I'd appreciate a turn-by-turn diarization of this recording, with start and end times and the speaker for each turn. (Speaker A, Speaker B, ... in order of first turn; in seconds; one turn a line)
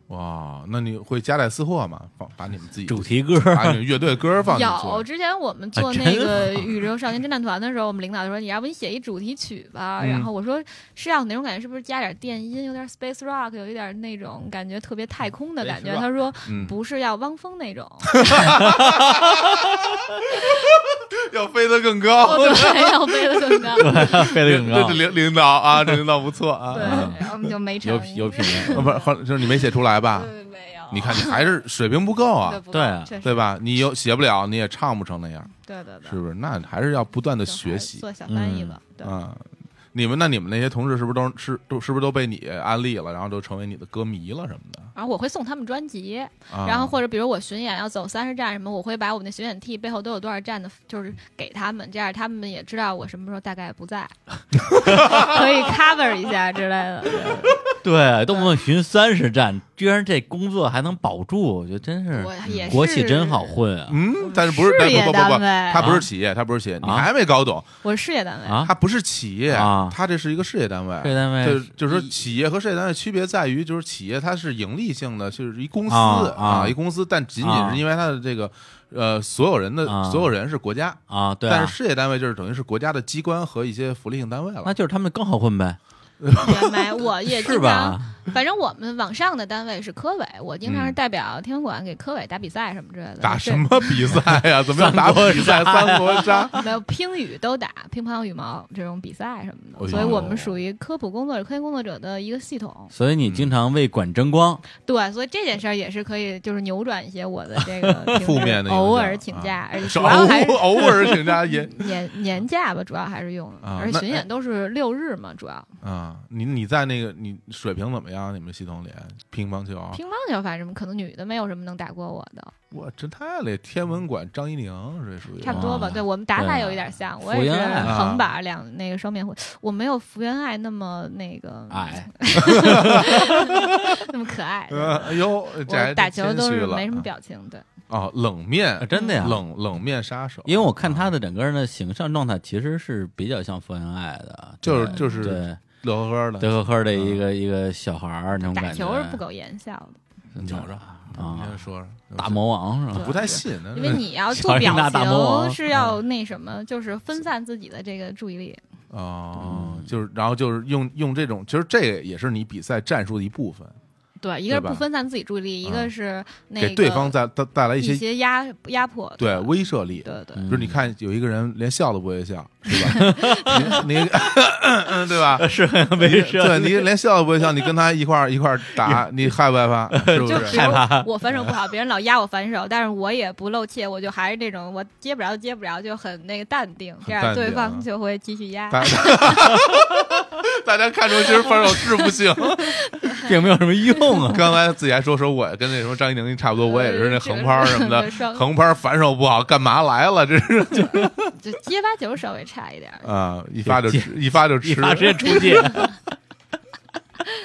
Speaker A: 0.1-5.1
Speaker B: 2.9-3.8
Speaker C: 4.5-18.4
Speaker B: 5.8-6.7
Speaker A: 10.0-10.3
Speaker B: 15.6-16.1
Speaker A: 16.5-16.8
Speaker A: 18.1-27.4
Speaker B: 18.5-19.8
Speaker C: 22.2-24.2
Speaker B: 23.8-25.1
Speaker C: 26.7-29.1
Speaker B: 26.8-27.3
Speaker B: 27.8-28.9
Speaker A: 28.6-30.3
Speaker C: 30.1-31.5
Speaker A: 30.9-32.6
Speaker C: 32.4-33.5
Speaker B: 32.7-33.1
Speaker A: 33.2-35.5
Speaker C: 35.6-36.2
Speaker A: 36.0-38.0
Speaker C: 37.5-39.1
Speaker B: 38.3-38.8
Speaker A: 39.0-44.9
Speaker C: 45.0-57.6
Speaker A: 46.5-47.0
Speaker A: 54.7-55.5
Speaker B: 57.7-64.0
Speaker C: 62.1-63.6
Speaker A: 62.4-62.9
Speaker A: 63.9-67.7
Speaker C: 64.1-66.0
Speaker B: 65.8-66.1
Speaker B: 66.8-67.1
Speaker C: 67.8-68.7
Speaker B: 68.5-68.7
Speaker A: 68.6-84.7
Speaker B: 69.5-70.0
Speaker B: 71.0-72.1
Speaker B: 75.9-76.8
Speaker B: 77.4-77.8
Speaker B: 79.8-80.3
Speaker B: 81.1-81.8
Speaker B: 84.6-85.8
Speaker A: 86.2-86.8
Speaker C: 86.4-94.0
Speaker B: 87.3-88.2
Speaker A: 90.7-91.0
Speaker A: 93.2-96.5
Speaker B: 94.7-96.6
Speaker C: 96.5-102.9
Speaker A: 99.8-100.6
Speaker B: 99.9-100.3
Speaker B: 102.9-104.6
Speaker A: 103.2-103.5
Speaker C: 104.8-115.7
Speaker A: 108.1-111.9
Speaker A: 113.6-114.3
Speaker A: 115.8-120.0
Speaker C: 119.9-122.5
Speaker A: 122.7-126.0
Speaker C: 125.4-137.7
Speaker B: 125.5-128.0
Speaker A: 127.8-128.3
Speaker B: 131.7-133.7
Speaker A: 132.4-133.3
Speaker A: 134.7-137.1
Speaker A: 137.9-141.1
Speaker B: 138.8-139.4
Speaker C: 138.9-139.2
Speaker B: 140.5-145.6
Speaker A: 144.6-147.2
Speaker C: 144.9-145.3
Speaker B: 146.4-149.2
Speaker C: 148.4-150.0
Speaker B: 150.4-151.6
Speaker A: 150.4-154.1
Speaker B: 152.2-153.3
Speaker C: 152.9-158.6
Speaker B: 154.3-155.6
Speaker A: 158.9-163.8
Speaker B: 159.4-159.8
Speaker C: 164.2-167.2
Speaker A: 164.5-164.8
Speaker A: 165.6-165.9
Speaker A: 166.6-168.1
Speaker C: 167.8-170.4
Speaker A: 169.2-175.5
Speaker B: 170.4-170.8
Speaker C: 172.9-173.8
Speaker B: 172.9-173.8
Speaker B: 175.3-176.9
Speaker A: 176.0-181.5
Speaker B: 179.9-181.1
Speaker C: 180.2-189.7
Speaker A: 187.1-187.9
Speaker A: 188.7-192.8
Speaker C: 192.6-193.3
Speaker B: 193.2-194.5
Speaker A: 194.2-201.3
Speaker C: 196.6-198.5
Speaker C: 201.4-203.1
Speaker A: 203.0-205.8
Speaker B: 203.7-206.0